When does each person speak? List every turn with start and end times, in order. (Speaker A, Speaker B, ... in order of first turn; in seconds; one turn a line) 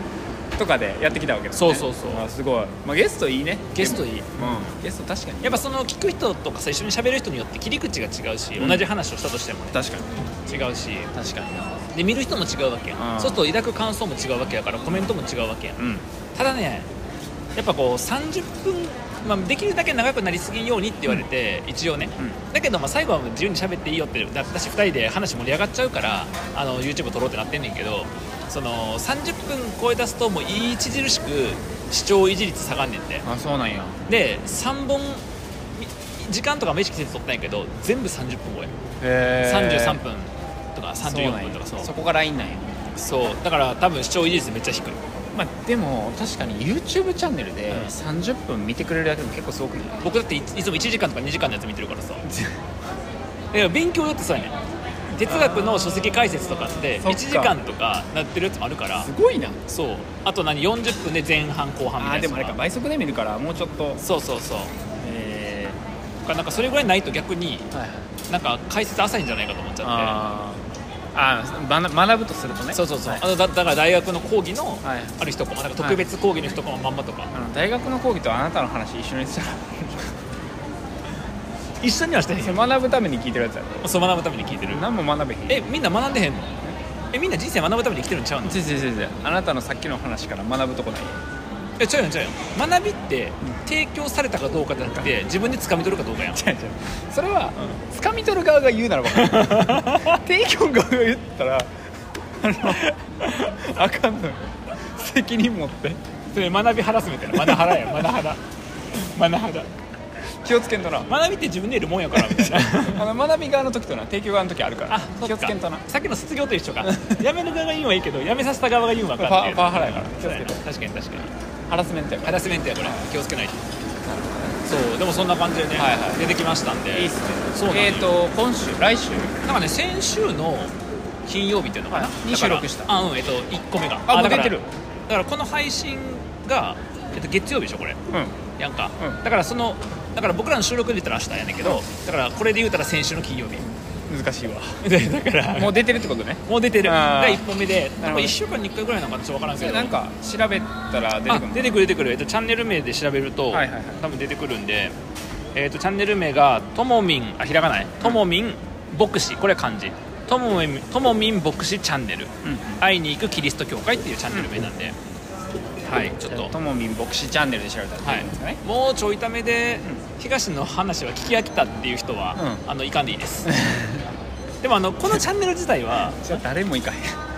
Speaker A: 0.6-5.7
Speaker B: 1.5-2.2
Speaker B: 3.7-4.7
Speaker B: 5.4-9.8
Speaker A: 8.6-8.9
Speaker A: 9.7-10.1
Speaker B: 10.4-11.1
Speaker A: 11.1-11.8
Speaker B: 11.9-15.8
Speaker A: 13.0-13.4
Speaker A: 15.8-16.0
Speaker B: 16.3-16.9
Speaker B: 17.6-33.2
Speaker A: 33.2-34.0
Speaker B: 34.1-35.2
Speaker B: 35.8-38.7
Speaker A: 39.0-40.0
Speaker B: 39.4-41.9
Speaker A: 41.0-42.8
Speaker B: 42.9-45.0
Speaker A: 45.3-50.0
Speaker B: 50.0-52.2
Speaker A: 52.2-52.6
Speaker B: 53.5-54.5
Speaker A: 55.1-56.1
Speaker B: 55.2-59.1
Speaker A: 56.9-57.6
Speaker A: 58.9-59.6
Speaker B: 59.7-62.6
Speaker A: 62.0-64.0
Speaker B: 64.0-64.7
Speaker A: 65.0-65.8
Speaker B: 66.2-67.7
Speaker A: 67.7-68.1
Speaker B: 68.3-70.2
Speaker A: 69.8-73.2
Speaker B: 72.7-77.3
Speaker A: 74.8-76.0
Speaker A: 77.3-80.2
Speaker B: 81.8-82.6
Speaker A: 82.3-83.9
Speaker B: 83.8-84.8
Speaker A: 84.5-85.7
Speaker B: 85.5-86.5
Speaker B: 87.1-88.6
Speaker A: 88.4-91.2
Speaker B: 91.8-96.4
Speaker A: 96.3-101.7
Speaker B: 99.1-100.2
Speaker A: 102.4-106.0
Speaker B: 106.3-108.4
Speaker A: 107.3-108.1
Speaker B: 109.0-109.7
Speaker A: 110.4-111.1
Speaker B: 111.1-113.1
Speaker A: 112.1-115.8
Speaker B: 114.9-121.3
Speaker A: 116.8-117.2
Speaker A: 119.2-120.6
Speaker A: 121.7-123.1
Speaker B: 122.2-123.6
Speaker A: 124.0-124.6
Speaker B: 124.6-128.1
Speaker A: 125.7-129.4
Speaker B: 129.4-130.7
Speaker B: 131.2-138.0
Speaker A: 131.9-132.9
Speaker A: 134.1-134.7
Speaker A: 138.1-138.4
Speaker B: 138.6-143.7
Speaker A: 143.6-144.8
Speaker B: 144.8-149.9
Speaker A: 145.5-147.4
Speaker A: 148.0-148.4
Speaker A: 149.5-151.9
Speaker B: 151.2-154.9
Speaker A: 153.5-154.0
Speaker B: 155.5-164.9
Speaker A: 162.4-162.8
Speaker A: 164.3-164.7
Speaker B: 165.8-166.5
Speaker A: 166.1-168.6
Speaker B: 168.0-173.5
Speaker A: 172.3-172.6
Speaker A: 173.5-174.0
Speaker B: 174.6-176.3
Speaker A: 176.0-177.2